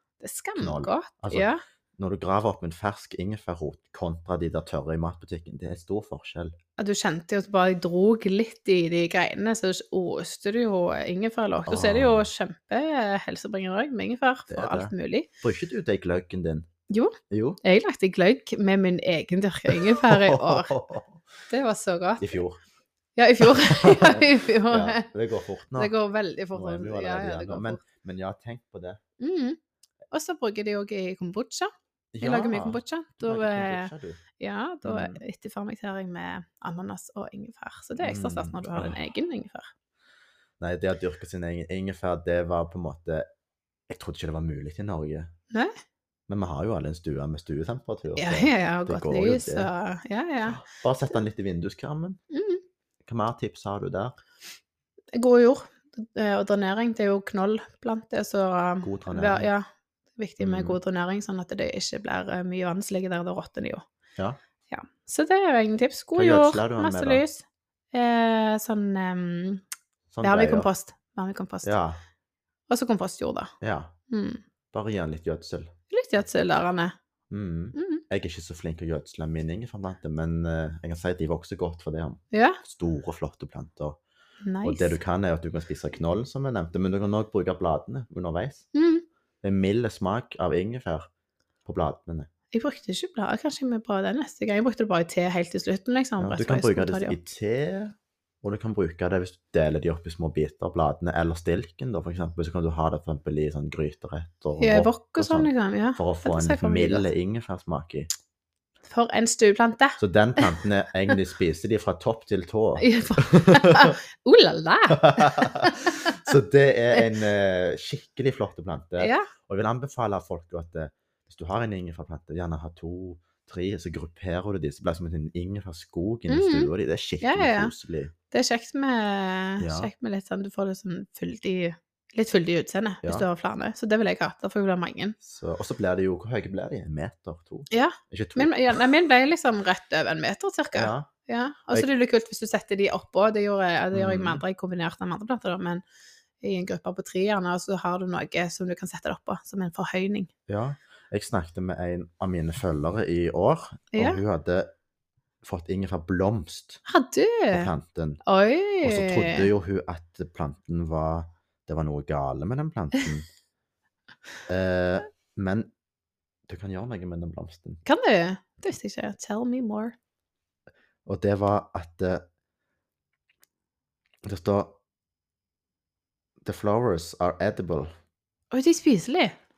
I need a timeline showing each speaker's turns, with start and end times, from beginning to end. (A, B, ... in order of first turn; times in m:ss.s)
0:00.2-0:01.6 A
0:00.6-0:06.6 B
0:06.8-0:15.3 A
0:11.7-0:12.3 B
0:14.5-0:16.7 B
0:16.9-0:20.8 A
0:17.3-0:17.6 B
0:19.7-0:21.2 B
0:21.5-0:22.4 A
0:22.2-0:22.6 B
0:23.2-0:25.1 A
0:23.4-0:25.9 B
0:25.7-0:27.8 A
0:26.5-0:29.0 B
0:29.2-0:29.6 A
0:30.1-0:39.7 A
0:32.1-0:34.2 B
0:34.8-0:35.2 B
0:38.0-0:39.0 B
0:40.6-0:43.3 B
0:43.9-0:45.3 B
0:46.3-0:49.7 B
0:48.2-0:50.6 A
0:50.4-0:52.2 B
0:52.3-0:52.6 A
0:53.0-0:54.2 B
0:55.1-1:03.8 A
0:58.8-0:59.5 B
1:00.4-1:00.8 B
1:04.7-1:09.6 A
1:06.1-1:07.2 B
1:10.1-1:10.7 B
1:10.2-1:11.8 A
1:11.6-1:12.0 B
1:12.7-1:13.5 A
1:13.6-1:13.9 B
1:14.1-1:14.4 A
1:14.7-1:15.7 B
1:15.9-1:16.9 A
1:17.3-1:24.0 B
1:17.8-1:18.0 A
1:22.3-1:22.6 A
1:24.4-1:25.0 A
1:24.6-1:28.7 B
1:28.7-1:29.0 A
1:29.4-1:31.1 B
1:31.6-1:32.3 B
1:32.5-1:37.2 A
1:36.2-1:48.1 B
1:44.6-1:47.1 A
1:48.8-1:50.6 A
1:50.0-1:54.0 B
1:52.8-1:56.2 A
1:54.9-2:08.1 B
1:59.0-1:59.3 A
2:06.3-2:07.7 A
2:08.3-2:15.2 A
2:09.6-2:09.9 B
2:15.2-2:18.8 B
2:17.7-2:25.8 A
2:20.7-2:21.1 B
2:23.9-2:24.4 B
2:26.4-2:30.3 A
2:30.5-2:34.7 B
2:33.9-2:34.2 A
2:35.4-2:36.8 B
2:36.9-2:37.7 A
2:37.5-2:38.2 B
2:38.2-2:39.5 A
2:38.8-2:43.3 B
2:44.5-2:45.7 B
2:46.5-2:47.8 B
2:47.8-2:50.0 A
2:51.0-2:52.2 B
2:54.2-2:54.8 B
2:56.4-2:57.9 B
2:58.5-2:59.4 A